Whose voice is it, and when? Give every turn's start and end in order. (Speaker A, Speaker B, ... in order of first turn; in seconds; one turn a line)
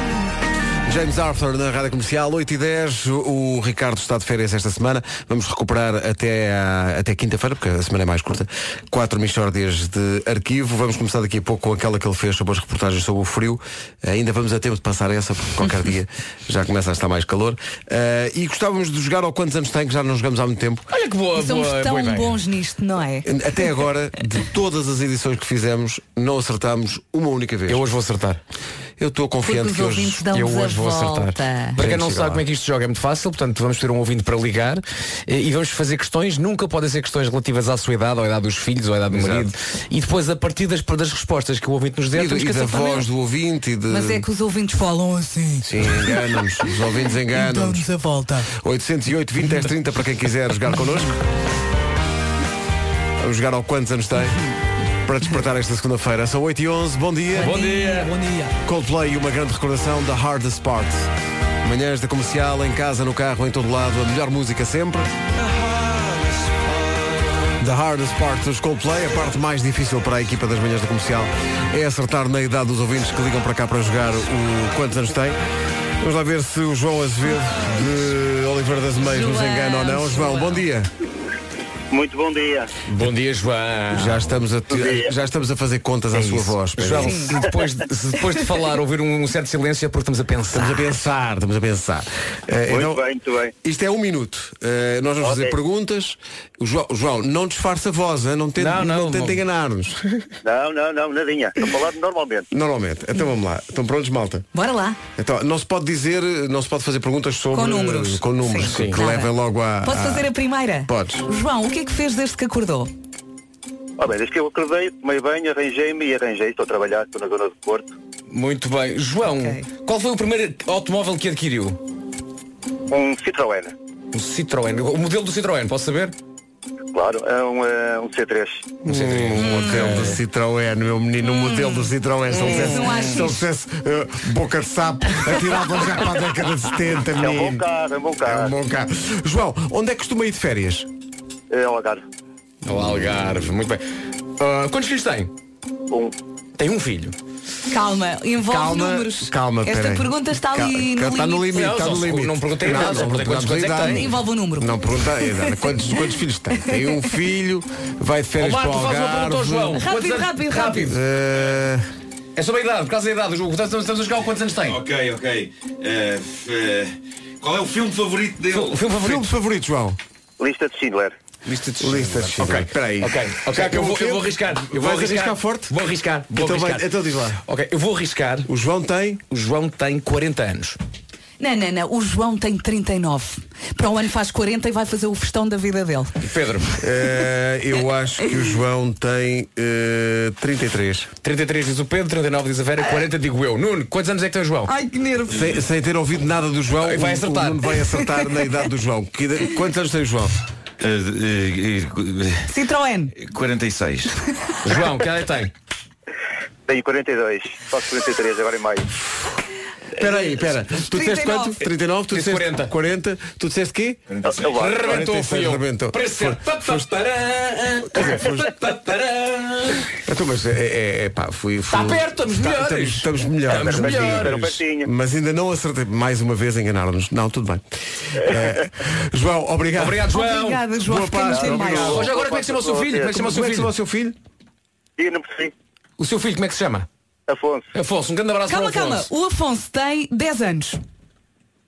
Speaker A: 0.8-20.8
Speaker B: 20.9-22.4
Speaker C: 21.4-23.3
Speaker A: 23.2-27.8
Speaker B: 27.7-28.4
Speaker A: 29.0-30.2
Speaker C: 29.4-31.8
Speaker B: 30.3-43.0
Speaker A: 31.8-32.4
Speaker A: 39.1-39.5
Speaker A: 42.1-44.3
Speaker C: 43.9-46.2
Speaker A: 45.6-47.9
Speaker C: 47.3-48.5
Speaker A: 48.4-51.2
Speaker A: 53.2-54.4
Speaker A: 55.0-57.6
Speaker C: 57.4-58.5
Speaker B: 57.4-58.1
Speaker A: 58.6-61.1
Speaker A: 61.6-65.1
Speaker A: 67.6-75.4
Speaker A: 76.0-80.9
Speaker C: 79.0-80.6
Speaker D: 81.9-82.7
Speaker B: 82.9-84.3
Speaker A: 83.9-87.4
Speaker D: 84.7-85.1
Speaker B: 86.1-91.0
Speaker C: 87.0-87.3
Speaker A: 90.5-93.0
Speaker D: 92.7-93.5
Speaker A: 93.6-100.3
Speaker D: 95.2-95.5
Speaker B: 98.6-99.4
Speaker D: 100.4-102.5
Speaker A: 102.5-104.4
Speaker C: 104.5-105.0
Speaker A: 105.2-110.3
Speaker C: 107.5-109.3
Speaker B: 108.6-109.0
Speaker C: 109.8-112.9
Speaker A: 110.9-111.2
Speaker D: 114.0-117.9
Speaker B: 118.3-121.8
Speaker C: 119.3-119.6
Speaker D: 122.9-123.7
Speaker B: 124.1-126.1
Speaker D: 126.9-128.8
Speaker A: 128.8-137.6
Speaker B: 128.9-130.2
Speaker C: 129.4-129.9
Speaker C: 131.2-133.4
Speaker D: 137.2-138.5
Speaker A: 138.2-140.9
Speaker D: 141.5-142.0
Speaker B: 142.6-143.8
Speaker B: 144.4-145.3
Speaker D: 145.9-146.1
Speaker B: 146.6-147.2
Speaker C: 147.7-151.6
Speaker A: 148.4-159.8
Speaker B: 151.5-154.1
Speaker C: 153.8-155.5
Speaker B: 158.4-161.0
Speaker C: 159.8-160.9
Speaker A: 160.8-161.8
Speaker B: 162.3-164.8
Speaker E: 164.7-168.8
Speaker B: 168.5-169.3
Speaker A: 168.9-170.0
Speaker D: 170.4-171.1
Speaker B: 171.4-176.9
Speaker A: 171.8-175.7
Speaker A: 176.3-177.4
Speaker B: 177.4-178.5
Speaker A: 178.4-179.2
Speaker B: 179.3-180.8
Speaker C: 181.4-186.2
Speaker B: 186.2-186.7
Speaker A: 186.8-191.1
Speaker B: 191.2-194.7
Speaker C: 194.7-195.5
Speaker A: 195.3-200.3
Speaker B: 196.8-197.7
Speaker E: 200.8-202.4
Speaker C: 202.5-203.1
Speaker E: 203.2-204.1
Speaker B: 204.6-205.5
Speaker D: 206.7-208.9
Speaker A: 209.9-214.0
Speaker C: 210.8-211.6
Speaker B: 212.1-212.7
Speaker E: 214.1-214.6
Speaker D: 214.2-215.0
Speaker B: 214.4-219.9
Speaker A: 214.8-216.9
Speaker A: 217.9-218.5
Speaker A: 220.0-230.1
Speaker B: 221.7-224.6
Speaker D: 223.5-224.9
Speaker B: 229.8-230.7
Speaker C: 230.1-232.0
Speaker A: 230.8-232.1
Speaker D: 231.3-233.2
Speaker B: 231.6-233.7
Speaker A: 233.1-234.2
Speaker D: 235.0-235.5
Speaker B: 236.0-236.9
Speaker D: 237.3-237.7
Speaker B: 237.7-239.1
Speaker C: 238.5-240.8